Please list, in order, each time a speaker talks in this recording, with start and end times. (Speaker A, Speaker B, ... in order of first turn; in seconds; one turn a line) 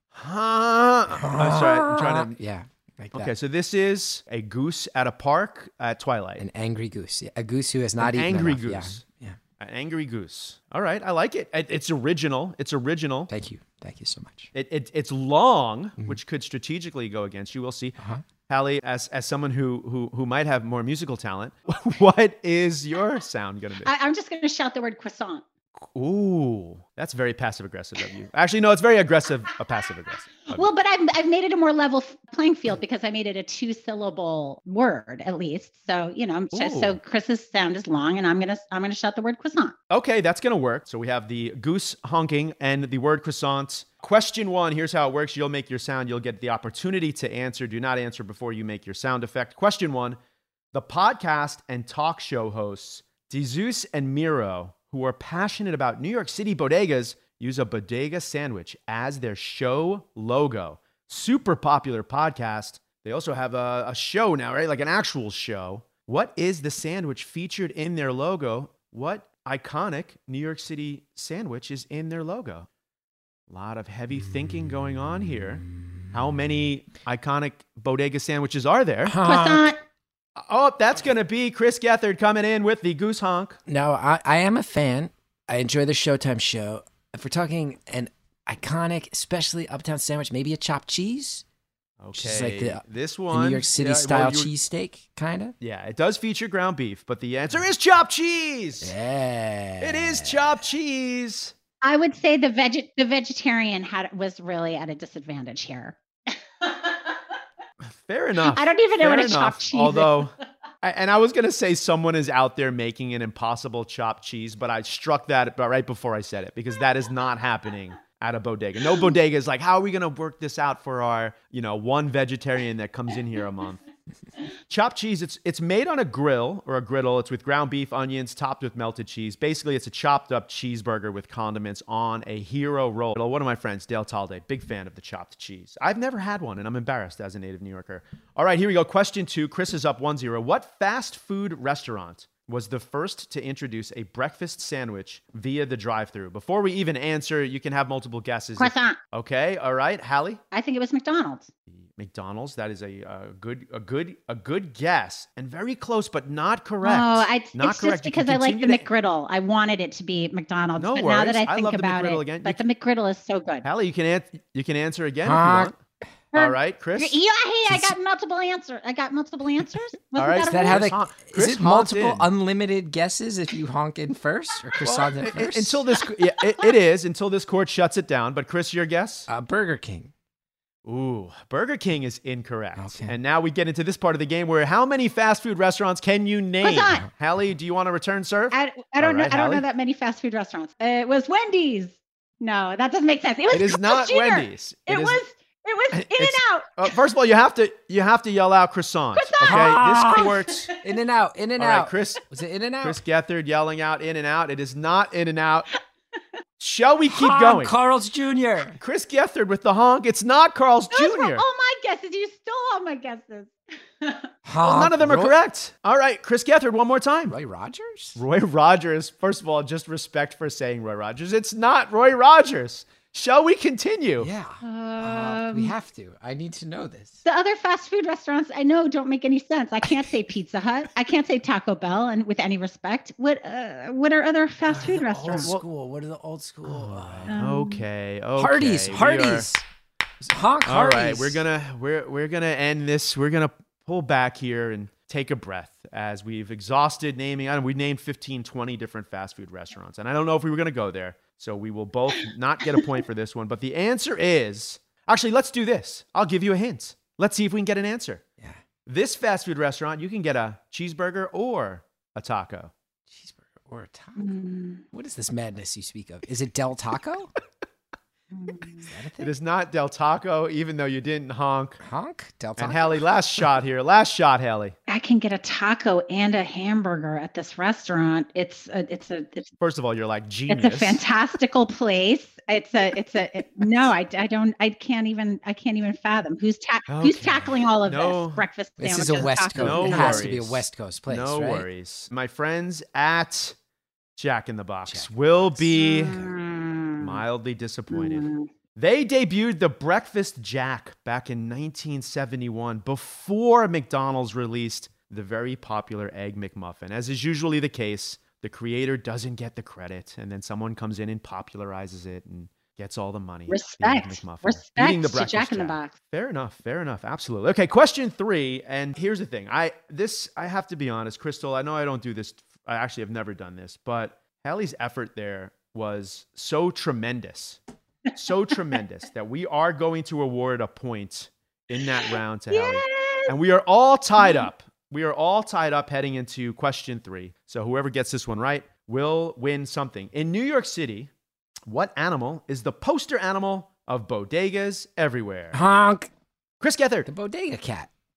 Speaker A: 0.1-2.4
Speaker B: 1.1-3.3
Speaker A: 3.1-6.4
Speaker B: 6.4-9.4
Speaker A: 8.0-9.0
Speaker A: 9.6-13.3
Speaker B: 13.3-14.5
Speaker A: 14.5-17.9
Speaker B: 18.0-18.2
Speaker A: 18.5-23.9
Speaker C: 23.8-25.4
Speaker A: 25.8-30.6
Speaker C: 30.5-39.7
Speaker A: 36.5-37.0
Speaker A: 39.9-50.2
Speaker A: 50.7-72.7
Speaker A: 73.5-79.2
Speaker B: 79.0-79.7
Speaker C: 79.2-79.8
Speaker A: 80.4-83.6
Speaker B: 83.7-91.4
Speaker A: 92.0-94.5
Speaker B: 92.1-95.5
Speaker A: 95.6-98.9
Speaker B: 98.8-100.4
Speaker A: 99.8-101.5
Speaker C: 101.8-106.0
Speaker C: 106.6-106.9
Speaker A: 107.8-123.8
Speaker C: 108.5-110.2
Speaker A: 124.7-150.4
Speaker C: 148.6-149.0
Speaker C: 150.5-151.5
Speaker A: 151.7-158.8
Speaker C: 156.8-163.7
Speaker A: 160.8-162.6
Speaker A: 163.6-165.8
Speaker B: 165.2-165.7
Speaker C: 166.3-170.8
Speaker A: 166.3-167.2
Speaker B: 167.7-167.9
Speaker A: 170.2-172.3
Speaker B: 170.4-175.8
Speaker A: 174.8-179.3
Speaker B: 179.3-180.1
Speaker A: 180.8-189.6
Speaker B: 182.8-183.2
Speaker C: 186.6-187.1
Speaker C: 188.5-196.9
Speaker A: 193.5-195.2
Speaker A: 195.9-200.7
Speaker C: 199.2-200.5
Speaker B: 199.4-203.0
Speaker A: 201.6-202.2
Speaker A: 202.8-205.7
Speaker A: 206.6-207.7
Speaker B: 207.1-208.8
Speaker A: 208.8-211.4
Speaker C: 210.9-214.3
Speaker B: 214.4-215.3
Speaker A: 214.6-217.3
Speaker B: 217.3-218.2
Speaker A: 218.2-224.3
Speaker B: 224.2-227.2
Speaker C: 224.6-225.7
Speaker C: 227.2-235.5
Speaker A: 234.9-235.6
Speaker B: 235.0-237.3
Speaker A: 236.6-239.5
Speaker C: 237.3-237.8
Speaker B: 238.4-239.6
Speaker B: 240.2-241.4
Speaker A: 240.6-258.2
Speaker A: 258.9-262.7
Speaker B: 263.1-264.3
Speaker C: 264.2-264.8
Speaker B: 264.9-267.3
Speaker C: 268.3-268.9
Speaker B: 268.8-269.3
Speaker A: 269.2-271.8
Speaker B: 271.8-273.4
Speaker A: 272.6-274.8
Speaker C: 274.9-279.5
Speaker A: 279.6-281.0
Speaker C: 280.5-290.2
Speaker A: 286.9-288.4
Speaker B: 288.8-291.6
Speaker A: 289.5-293.5
Speaker A: 294.2-296.3
Speaker B: 294.9-295.7
Speaker C: 295.7-297.2
Speaker A: 297.0-327.6
Speaker C: 297.9-298.5
Speaker C: 313.5-315.9
Speaker A: 328.1-341.1
Speaker C: 331.8-333.3
Speaker C: 334.2-334.5
Speaker A: 341.6-345.6
Speaker B: 345.5-346.1
Speaker A: 346.6-347.1
Speaker B: 347.1-347.9